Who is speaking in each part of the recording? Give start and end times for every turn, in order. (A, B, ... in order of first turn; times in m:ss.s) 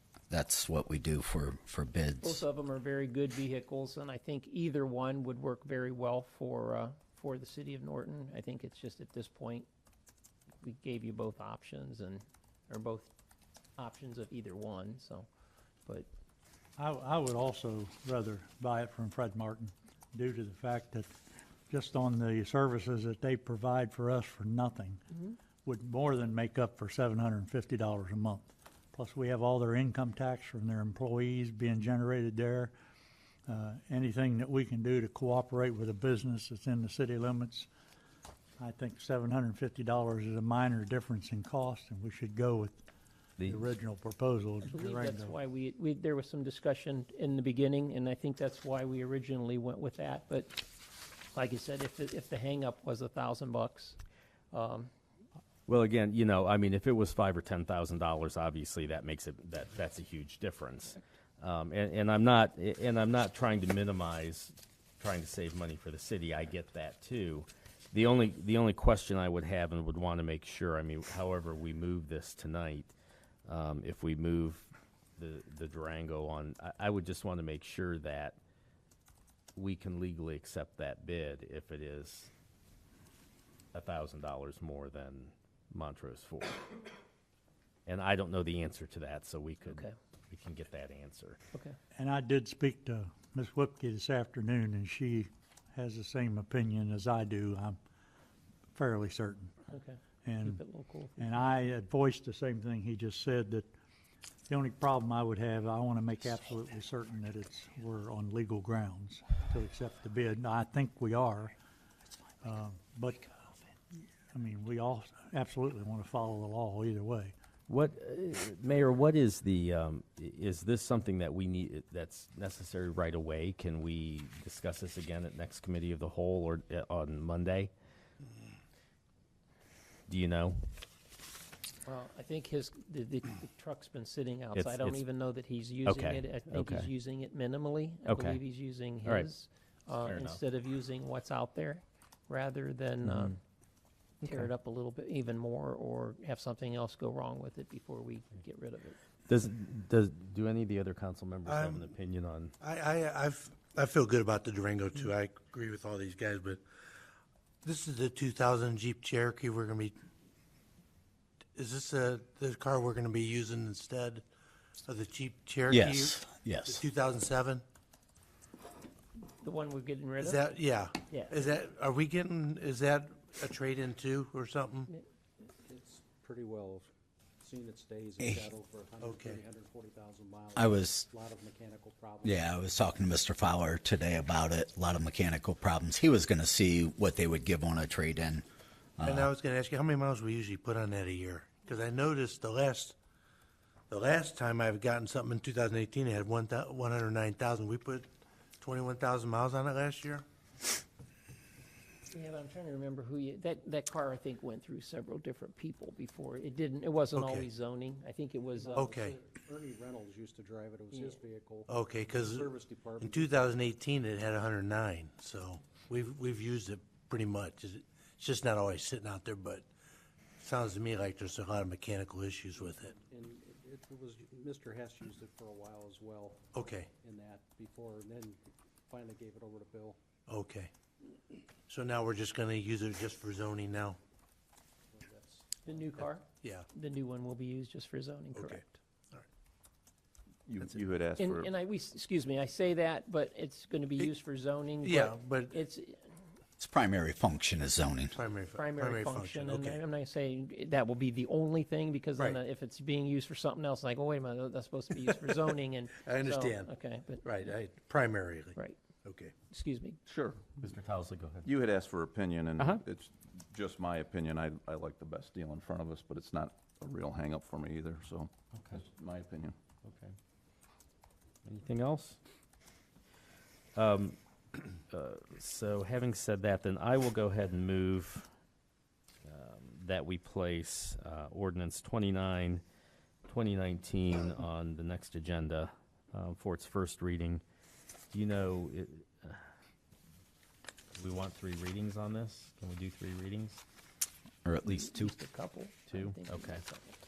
0:00.3-0:02.4 A
0:02.2-0:09.7 B
0:10.6-0:13.1 B
0:13.8-0:15.3 B
0:16.8-0:21.1 C
0:21.7-0:32.7 C
0:33.5-0:37.7 C
0:38.6-0:42.8 C
0:43.4-0:45.4 C
0:44.6-0:50.6 B
0:51.3-0:54.0 B
0:54.5-0:54.9 B
0:55.6-1:12.9 D
1:13.4-1:18.4 D
1:19.5-1:22.3 D
1:23.7-1:26.6 D
1:27.8-1:31.4 D
1:29.6-1:29.9 B
1:31.9-1:37.8 C
1:38.7-1:39.5 C
1:39.7-1:41.4 B
1:40.2-1:40.6 C
1:41.2-1:43.7 C
1:44.5-1:51.5 C
1:52.4-1:53.3 C
1:54.3-1:57.3 C
1:57.7-2:07.7 D
2:10.1-2:10.6 D
2:11.8-2:23.4 B
2:14.5-2:15.0 D
2:15.8-2:16.9 D
2:18.0-2:18.4 D
2:20.0-2:20.4 D
2:23.0-2:23.3 D
2:24.2-2:29.0 B
2:29.3-2:32.5 D
2:31.4-2:31.9 E
2:32.6-2:36.6 E
2:37.6-2:39.9 E
2:41.5-2:44.2 E
2:44.8-2:47.6 E
2:45.7-2:46.8 A
2:49.4-2:50.4 B
2:50.2-2:54.9 E
2:51.1-2:51.4 B
2:55.6-2:56.9 F
2:57.4-3:02.5 F
2:58.2-2:58.5 A
2:59.0-2:59.4 E
3:00.5-3:01.1 A
3:02.2-3:08.4 A
3:09.0-3:09.3 A
3:09.0-3:12.9 E
3:13.9-3:18.1 E
3:18.6-3:20.2 E
3:22.1-3:28.9 B
3:27.1-3:27.5 E
3:28.6-3:33.6 F
3:28.7-3:29.1 E
3:30.9-3:31.2 B
3:31.7-3:39.6 E
3:40.4-3:43.0 E
3:42.6-3:50.0 F
3:46.5-3:46.9 E
3:50.3-3:50.7 E
3:51.7-3:54.0 E
3:54.9-3:55.8 F
3:55.6-3:58.7 B
3:58.3-3:59.2 E
4:00.4-4:01.5 G
4:01.2-4:06.0 B
4:04.8-4:05.6 E
4:06.6-4:08.2 A
4:08.1-4:09.8 E
4:08.5-4:17.2 B
4:16.0-4:16.7 E
4:17.2-4:19.3 E
4:19.5-4:20.0 B
4:20.1-4:20.5 G
4:20.6-4:21.5 D
4:21.4-4:29.5 G
4:28.5-4:28.8 D
4:29.8-4:30.1 D
4:31.4-4:32.2 D
4:33.7-4:34.2 D
4:34.9-4:38.3 D
4:39.2-4:42.6 D
4:43.2-4:47.4 D
4:48.1-4:49.4 D
4:50.9-4:53.6 D
4:54.4-4:55.1 A
4:54.6-4:57.0 B
4:55.9-4:56.6 D